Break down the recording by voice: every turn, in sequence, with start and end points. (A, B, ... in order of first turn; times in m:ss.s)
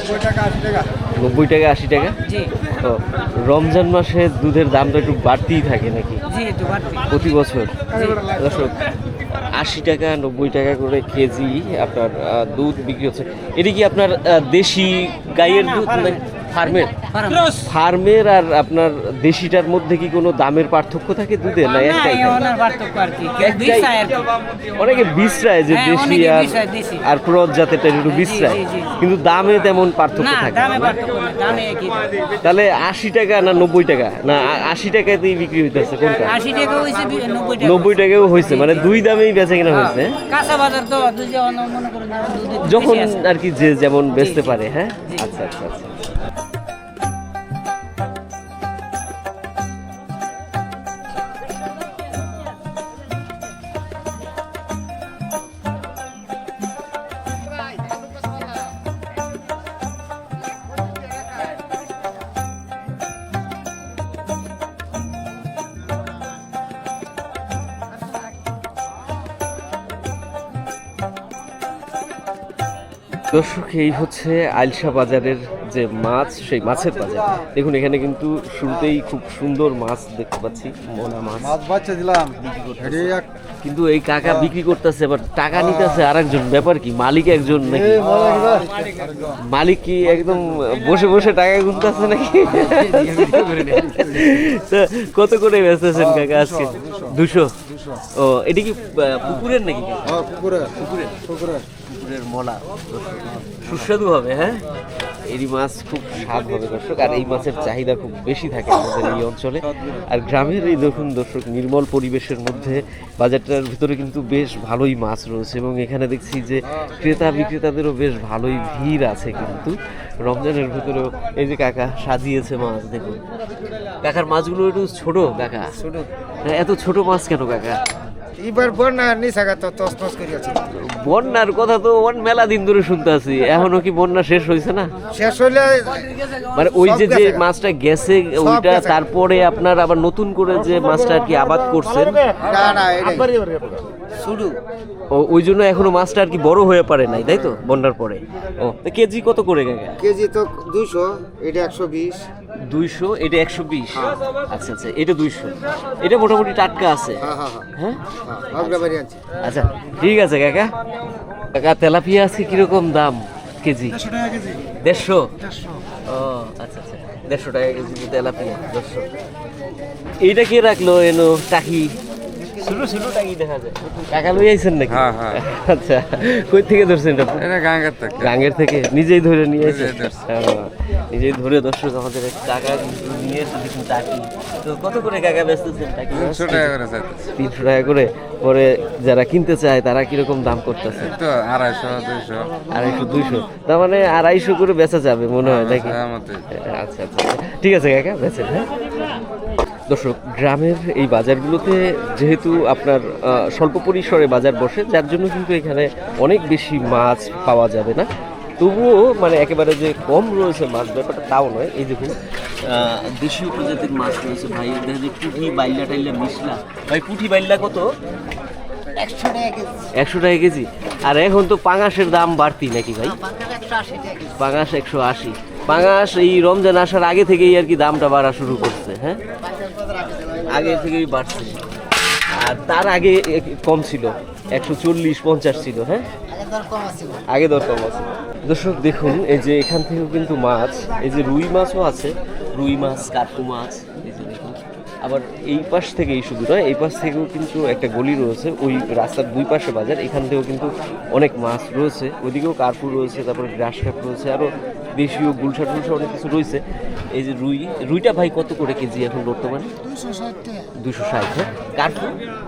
0:01.1-0:06.2 A
0:02.2-0:02.5 B
0:06.3-0:07.0 B
0:07.1-0:22.5 A
0:07.9-0:08.2 B
0:17.1-0:17.7 B
0:21.7-0:24.3 B
0:23.4-0:24.0 A
0:24.8-0:31.7 A
0:25.7-0:27.0 B
0:28.1-0:28.9 B
0:30.2-0:32.4 B
0:32.4-0:36.4 A
0:36.2-0:38.9 B
0:37.6-0:40.2 A
0:40.3-0:43.2 B
0:42.6-0:46.0 A
1:13.3-1:28.7 A
1:29.3-1:44.6 A
1:40.2-1:40.6 C
1:45.2-2:03.2 A
2:04.0-2:05.8 A
2:05.8-2:06.1 C
2:06.4-2:07.8 A
2:08.4-2:10.6 C
2:10.7-2:14.9 A
2:15.1-2:16.2 C
2:16.5-2:22.4 A
2:16.8-2:17.4 C
2:18.4-2:19.0 C
2:22.4-2:24.6 C
2:25.1-2:30.0 A
2:30.0-2:32.3 C
2:32.7-2:40.7 A
2:37.2-2:37.7 C
2:38.2-2:39.2 C
2:41.5-2:44.1 A
2:44.2-2:44.5 C
2:44.8-2:45.3 A
2:46.0-2:49.1 A
2:50.2-2:51.9 A
2:52.4-2:57.5 A
2:54.9-2:55.4 D
2:57.4-2:58.3 D
2:58.2-3:06.8 A
2:59.6-3:00.1 D
3:06.1-3:07.3 D
3:07.3-3:11.2 A
3:11.1-3:12.7 D
3:12.7-3:16.0 A
3:15.4-3:16.4 D
3:16.5-3:18.7 A
3:19.9-3:28.1 A
3:28.6-3:37.9 A
3:38.9-3:39.9 C
3:40.0-3:43.3 A
3:43.3-3:44.3 C
3:44.2-3:49.2 A
3:49.6-3:50.3 C
3:50.4-3:51.6 A
3:52.4-3:56.1 A
3:56.4-3:57.2 C
3:57.3-4:16.6 A
4:17.1-4:19.8 A
4:20.1-4:20.4 C
4:20.8-4:22.2 A